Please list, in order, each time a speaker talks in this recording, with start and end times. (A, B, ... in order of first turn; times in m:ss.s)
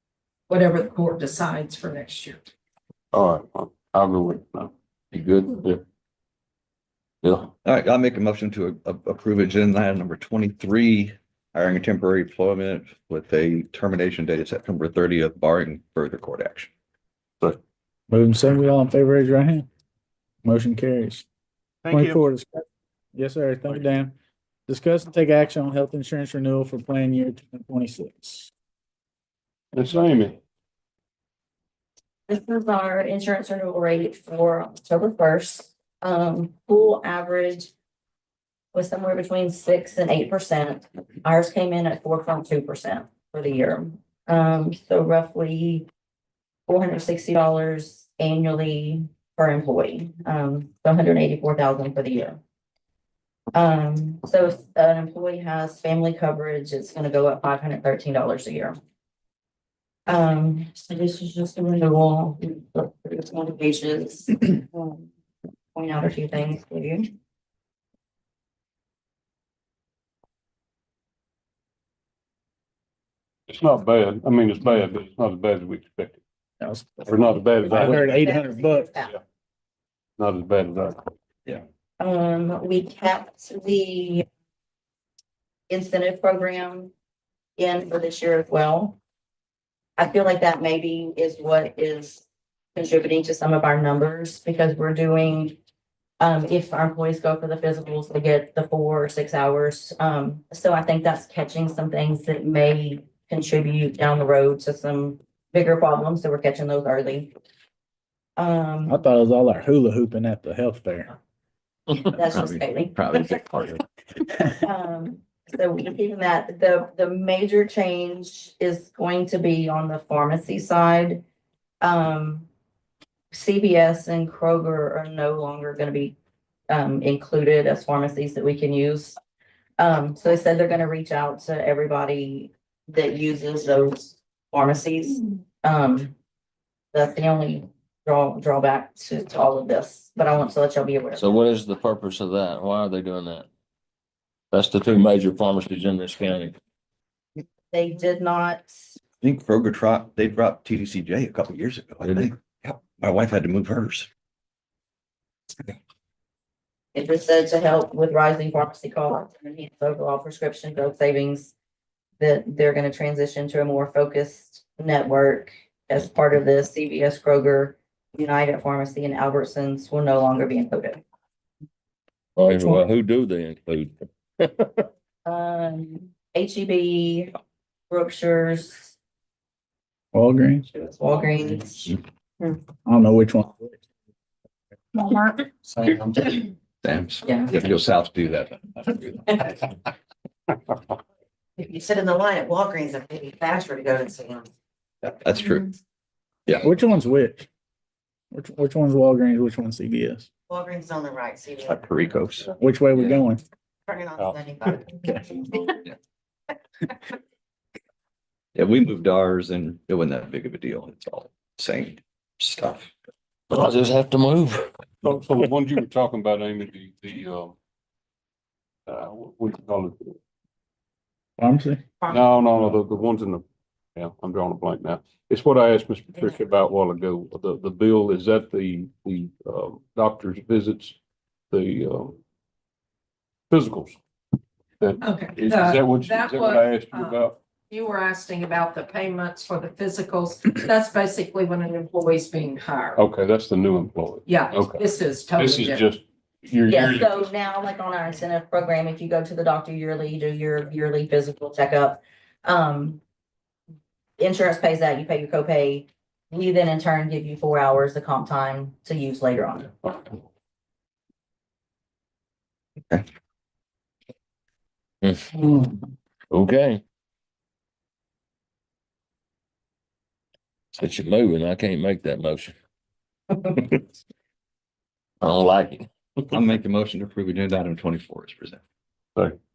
0:00.5-0:02.4 A
0:03.1-0:04.7 B
0:05.1-0:05.8 C
0:07.2-0:07.5 C
0:07.6-0:16.7 D
0:18.1-0:19.7 E
0:20.4-0:21.3 E
0:21.9-0:24.2 E
0:24.7-0:28.5 E
0:29.7-0:30.4 B
0:32.3-0:37.7 F
0:38.7-0:45.9 F
0:46.7-0:52.4 F
0:53.5-0:58.8 F
1:00.1-1:05.1 F
1:05.8-1:07.1 F
1:13.5-1:16.2 B
1:16.6-1:19.1 E
1:17.1-1:18.3 B
1:17.7-1:19.1 F
1:20.2-1:21.0 B
1:22.0-1:24.2 F
1:25.7-1:26.9 F
1:27.6-1:29.0 F
1:30.0-1:32.2 F
1:32.8-1:35.6 F
1:36.2-1:47.3 F
1:48.4-1:49.0 F
1:48.9-1:51.1 E
1:52.0-1:53.4 F
1:52.1-1:53.8 D
1:54.6-2:01.2 F
2:01.8-2:02.5 F
2:03.3-2:06.2 F
2:06.7-2:09.2 F
2:09.8-2:16.1 F
2:16.9-2:21.3 F
2:21.2-2:23.5 C
2:24.5-2:26.6 C
2:27.7-2:29.0 F
2:29.2-2:34.1 D
2:36.9-2:41.5 F
2:42.2-2:51.0 F
2:52.4-2:54.8 C
2:55.2-2:57.3 F
2:57.9-2:59.0 F
3:00.1-3:00.7 E
3:00.7-3:02.5 F
3:02.9-3:03.8 E
3:05.7-3:06.1 E
3:06.8-3:09.5 D
3:11.6-3:14.5 G
3:15.0-3:15.7 D
3:16.6-3:17.5 E
3:18.3-3:20.3 E
3:20.5-3:21.7 G
3:21.6-3:22.5 D
3:22.6-3:23.4 E
3:23.9-3:24.8 G
3:28.6-3:32.9 D
3:33.5-3:34.7 C
3:35.0-3:37.6 B
3:38.9-3:40.1 B
3:41.4-3:41.8 E
3:42.1-3:43.4 B
3:44.0-3:51.0 B
3:51.5-3:52.2 B
3:53.5-3:54.0 B
3:54.8-3:57.4 B
3:55.0-4:03.0 A
4:03.0-4:07.3 B
4:04.3-4:05.9 A
4:06.7-4:13.0 F
4:14.2-4:19.7 F
4:25.0-4:25.6 C
4:26.3-4:26.8 C
4:30.8-4:32.5 C
4:35.2-4:35.9 C
4:36.3-4:38.6 D